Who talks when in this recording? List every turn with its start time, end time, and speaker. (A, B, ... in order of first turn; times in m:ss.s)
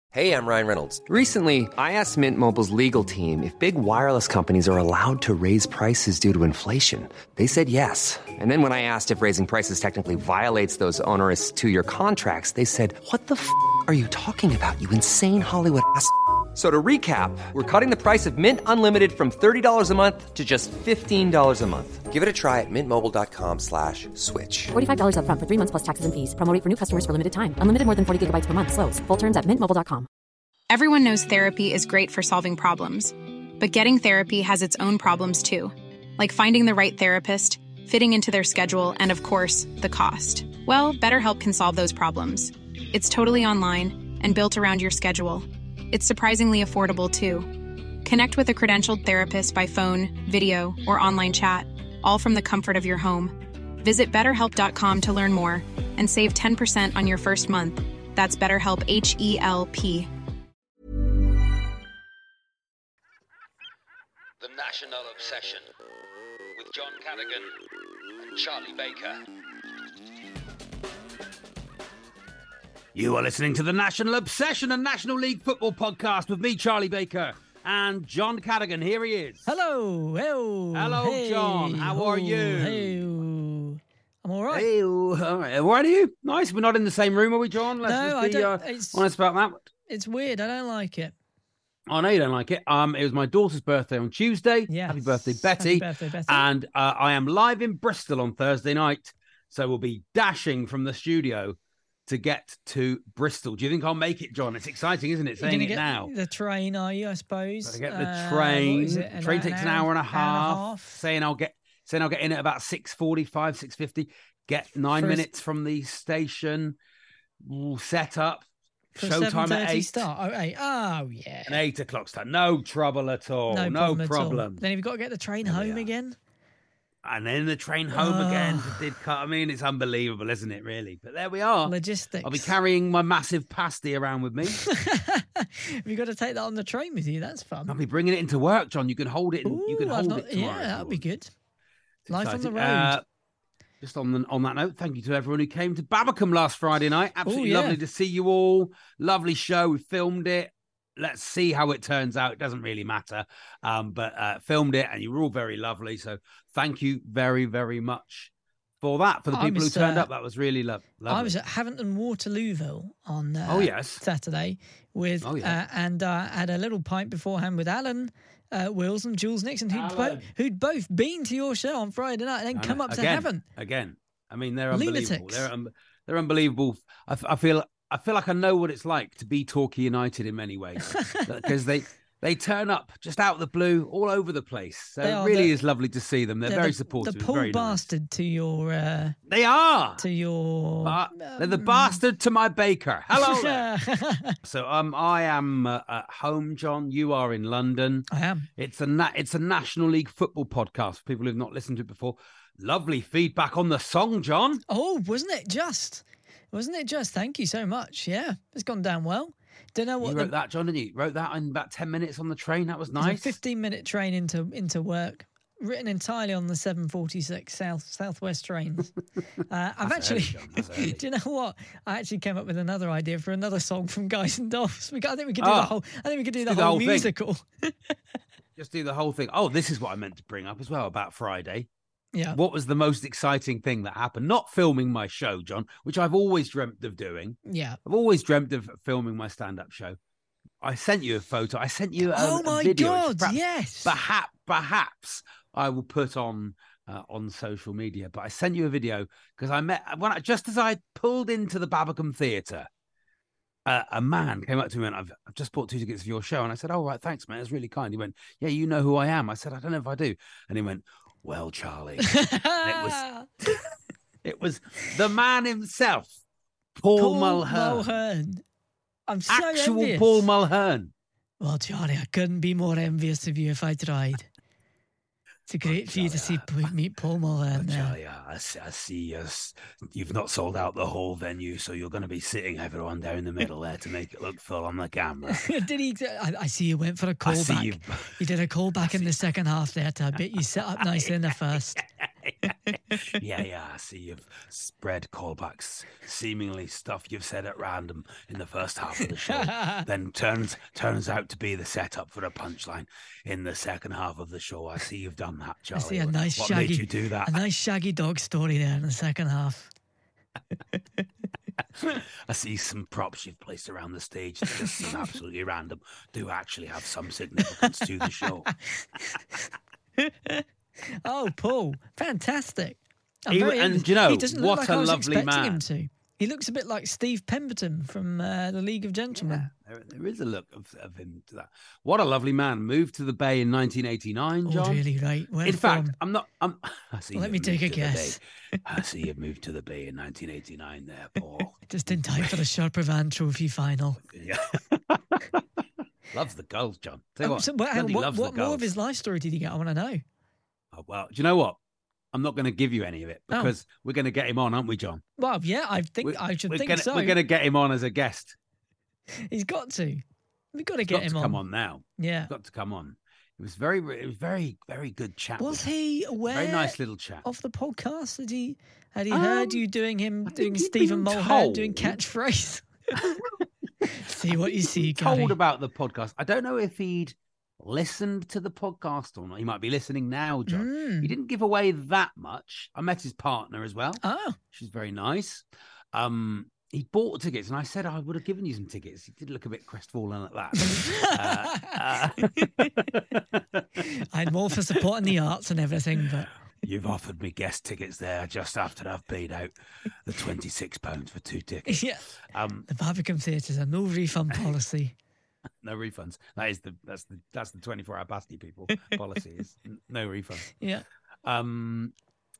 0:00.1-0:24.7 A
0:24.7-0:30.1 B
0:30.7-1:00.1 C
1:04.4-1:05.7 D
1:06.6-1:07.5 D
1:08.2-1:09.2 D
1:12.9-1:19.5 E
1:19.4-1:24.7 F
1:20.7-1:23.2 E
1:24.5-1:29.6 E
1:27.8-1:29.0 F
1:29.9-1:31.1 F
1:31.9-1:46.1 E
1:34.7-1:36.4 F
1:45.4-1:51.0 F
1:47.6-1:56.8 E
1:54.9-1:55.2 F
1:57.4-2:00.0 E
1:59.0-2:01.6 F
2:01.5-2:04.6 E
2:03.5-2:06.2 F
2:05.4-2:05.9 E
2:07.0-2:14.6 E
2:07.9-2:08.9 F
2:11.6-2:12.5 F
2:14.5-2:17.7 F
2:17.7-2:21.0 E
2:19.4-2:21.3 F
2:22.1-2:23.0 E
2:22.1-2:23.0 F
2:23.8-2:41.3 E
2:27.2-2:27.8 F
2:39.3-2:40.1 F
2:41.1-2:53.4 F
2:43.5-2:44.0 E
2:45.2-2:45.6 E
2:49.7-2:50.3 E
2:52.5-3:07.9 E
2:54.7-2:55.5 F
3:00.9-3:01.3 F
3:05.0-3:05.5 F
3:06.5-3:09.2 F
3:09.3-3:10.0 E
3:10.0-3:12.0 F
3:10.8-3:13.7 E
3:13.1-3:14.4 F
3:14.4-3:24.6 E
3:18.1-3:18.5 F
3:24.7-3:30.3 F
3:30.0-3:33.4 E
3:33.0-3:38.9 F
3:39.5-3:47.7 F
3:39.8-3:41.0 E
3:45.4-3:45.7 E
3:46.4-3:47.1 E
3:48.6-3:51.7 E
3:52.3-4:00.0 E
3:57.5-3:57.8 F
4:00.6-4:12.7 E
4:02.0-4:03.9 F
4:13.6-4:23.0 E
4:22.0-4:23.3 F
4:24.2-4:26.2 E
4:26.8-4:27.9 E
4:27.0-4:28.4 F
4:29.1-4:30.3 F
4:29.3-4:30.9 E
4:31.4-4:34.3 F
4:35.5-4:37.9 F
4:35.6-4:36.7 E
4:37.5-4:45.5 E
4:45.3-4:51.8 F
4:47.2-4:48.1 E
4:48.8-4:49.1 E
4:50.8-4:51.1 E
4:52.2-4:52.5 E
4:53.0-5:07.4 E
4:59.3-4:59.8 F
5:05.7-5:09.7 F
5:11.8-5:18.5 E
5:14.6-5:14.9 F
5:18.5-5:19.2 F
5:20.1-5:20.4 F
5:21.0-5:29.5 F
5:23.3-5:25.6 E
5:29.1-5:34.8 E
5:34.4-5:35.9 F
5:35.4-5:42.4 E
5:37.1-5:38.2 F
5:41.7-5:44.0 F
5:44.0-5:45.4 E
5:46.1-5:48.7 E
5:47.2-5:50.0 F
5:50.7-5:51.6 E
5:52.1-5:55.0 E
5:55.2-5:57.2 F
5:56.0-5:58.4 E
5:59.3-6:00.0 F
6:00.5-6:01.4 F
6:00.9-6:05.6 E
6:02.0-6:02.3 F
6:05.4-6:13.2 F
6:06.3-6:07.2 E
6:09.1-6:09.6 E
6:10.3-6:12.0 E
6:13.0-6:13.3 E
6:13.9-6:15.4 F
6:14.0-6:33.8 E
6:20.5-6:21.1 F
6:24.0-6:24.4 F
6:30.6-6:31.8 F
6:33.8-6:36.3 F
6:34.6-6:34.8 E
6:36.6-6:39.5 E
6:40.0-6:42.6 E
6:41.7-6:42.0 F
6:42.7-6:44.9 F
6:45.6-6:50.5 E
6:50.5-6:50.8 F
6:51.2-6:51.9 E